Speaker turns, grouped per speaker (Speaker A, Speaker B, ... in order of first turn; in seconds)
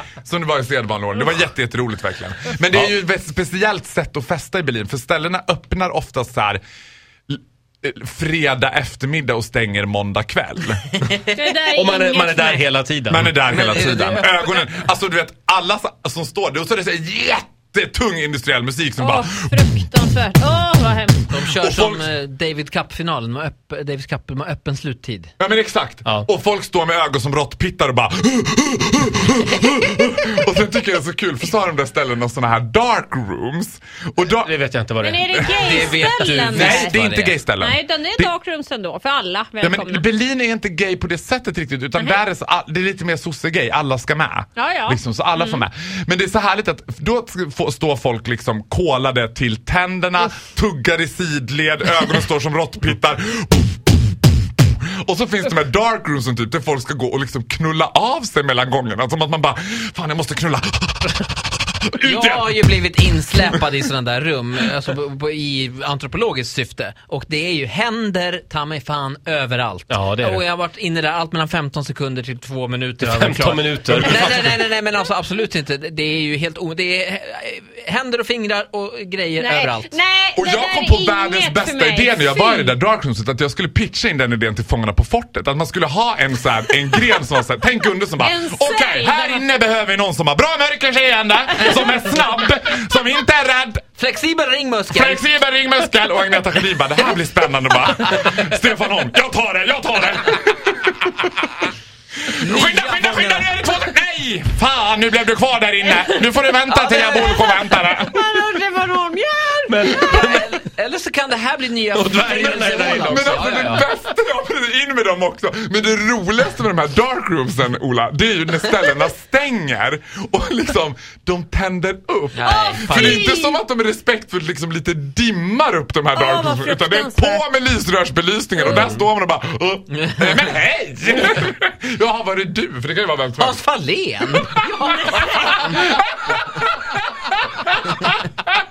Speaker A: 0.2-6.6, 7.3-10.8, 13.1-19.9, 21.1-22.1, 25.4-34.5, 35.2-35.5, 36.6-38.3, 39.6-62.8, 74.2-74.5, 80.3-93.8, 94.9-101.5, 102.3-108.4, 113.0-133.6, 135.8-136.3, 137.9-138.1
Speaker B: 11.3-12.6, 19.0-21.2, 35.0-40.0, 44.5-45.6, 79.4-82.7, 88.2-89.4, 105.9-110.0, 122.4-123.6, 126.1-127.4, 135.4-135.7
Speaker C: 11.3-13.3, 34.4-36.1, 69.9-70.4, 73.0-74.5, 109.7-110.5, 111.9-113.9, 128.7-129.0
Speaker D: 13.5-14.6, 21.3-25.3, 35.5-37.4, 62.0-79.9, 94.0-95.3, 102.4-103.7, 109.8-113.8, 122.3-123.3, 130.0-130.4, 133.4-135.9